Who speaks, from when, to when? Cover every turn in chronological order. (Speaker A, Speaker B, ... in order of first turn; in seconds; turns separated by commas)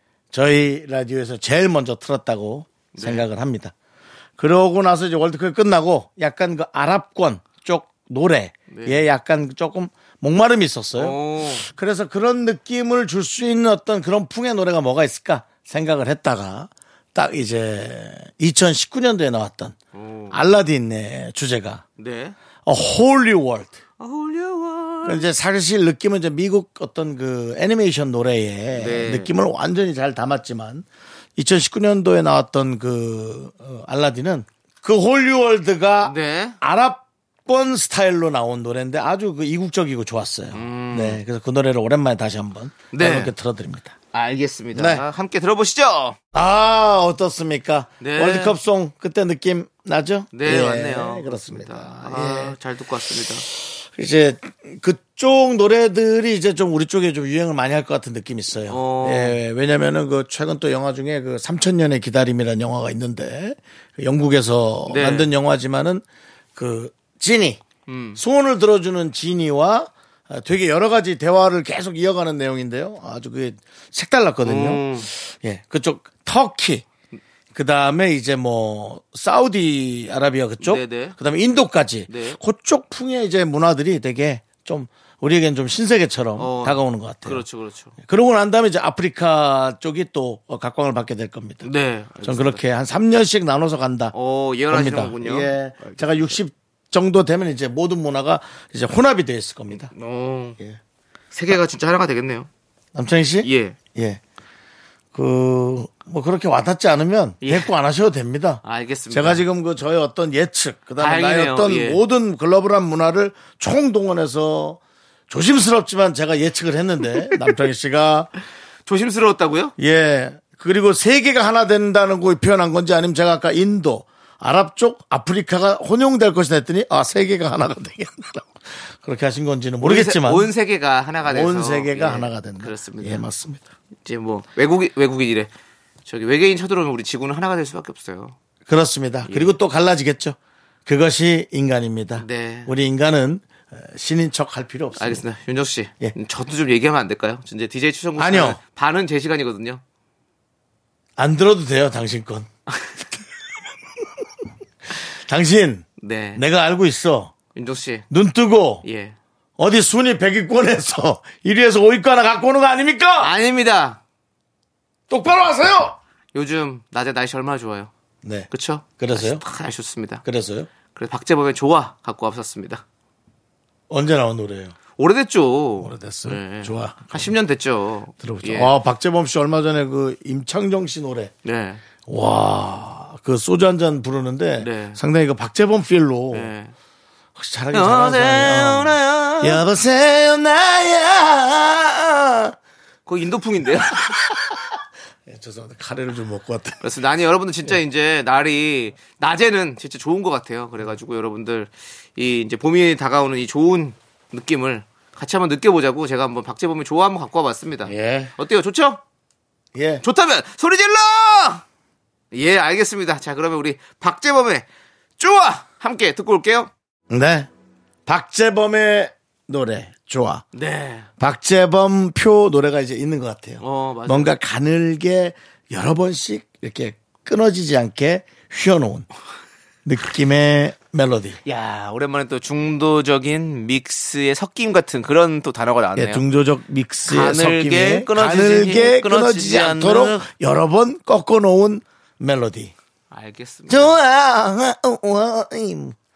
Speaker A: 0.3-3.7, Speaker B: 2.9-3.2, Speaker A: 4.4-19.8, Speaker B: 8.7-9.0, Speaker B: 10.9-11.7, Speaker B: 19.9-20.4, Speaker A: 20.3-21.8, Speaker B: 22.0-22.4, Speaker A: 22.6-23.8, Speaker B: 24.0-25.3, Speaker A: 25.0-30.8, Speaker B: 28.7-29.3, Speaker A: 31.4-43.9, Speaker B: 36.0-36.6, Speaker B: 40.5-41.2, Speaker B: 42.9-43.3, Speaker B: 44.1-46.2, Speaker A: 44.7-45.0, Speaker A: 46.3-52.5, Speaker B: 48.0-48.5, Speaker B: 50.3-53.4, Speaker A: 53.4-66.0, Speaker B: 58.7-59.4, Speaker B: 64.9-65.3, Speaker A: 66.5-67.6, Speaker B: 67.9-68.2, Speaker A: 68.2-76.8, Speaker B: 74.4-75.1, Speaker A: 77.5-87.4, Speaker B: 80.6-81.2, Speaker B: 82.1-82.4, Speaker B: 86.3-87.9, Speaker A: 88.0-91.7, Speaker B: 91.6-92.6, Speaker A: 92.2-94.1, Speaker B: 94.1-96.3, Speaker A: 94.7-99.9, Speaker B: 99.7-100.6, Speaker B: 101.3-102.5, Speaker A: 102.9-104.2, Speaker B: 103.4-103.8, Speaker A: 105.1-118.3, Speaker B: 107.4-107.7, Speaker B: 108.6-109.4, Speaker B: 111.0-112.0, Speaker B: 118.8-119.7, Speaker A: 119.8-130.5, Speaker B: 129.8-133.2, Speaker A: 131.2-133.6, Speaker B: 134.0-135.5, Speaker B: 136.1-138.3, Speaker A: 138.7-145.2, Speaker B: 139.2-139.6, Speaker B: 142.2-142.7, Speaker B: 144.9-149.8, Speaker A: 148.2-148.6, Speaker A: 151.2-152.5, Speaker A: 154.9-157.3, Speaker B: 156.0-156.4, Speaker B: 157.5-158.1, Speaker A: 158.1-158.8, Speaker B: 158.8-159.1, Speaker A: 159.6-163.3, Speaker B: 163.2-164.0, Speaker A: 165.1-166.0, Speaker B: 166.3-167.9, Speaker A: 168.2-169.4, Speaker B: 168.5-170.2, Speaker A: 170.2-170.7, Speaker B: 170.9-172.8, Speaker A: 173.9-174.7, Speaker B: 175.0-178.7, Speaker A: 175.8-177.3, Speaker A: 178.2-181.3, Speaker B: 181.4-181.8, Speaker A: 182.1-186.5, Speaker B: 184.6-185.0, Speaker B: 186.3-186.7, Speaker A: 187.3-192.6, Speaker B: 187.7-189.6, Speaker B: 193.1-194.3, Speaker A: 193.9-194.6, Speaker A: 195.3-196.8, Speaker B: 196.8-209.0, Speaker A: 207.8-208.3, Speaker A: 209.7-210.0, Speaker B: 210.0-211.6, Speaker B: 212.3-214.7, Speaker B: 215.2-216.7, Speaker A: 217.1-217.5, Speaker A: 218.1-220.4, Speaker B: 220.5-221.1, Speaker A: 221.2-229.1, Speaker B: 223.6-224.3, Speaker A: 229.8-231.4, Speaker B: 231.4-236.2, Speaker A: 235.9-242.7, Speaker B: 237.1-240.2, Speaker B: 243.1-243.9, Speaker A: 243.7-245.9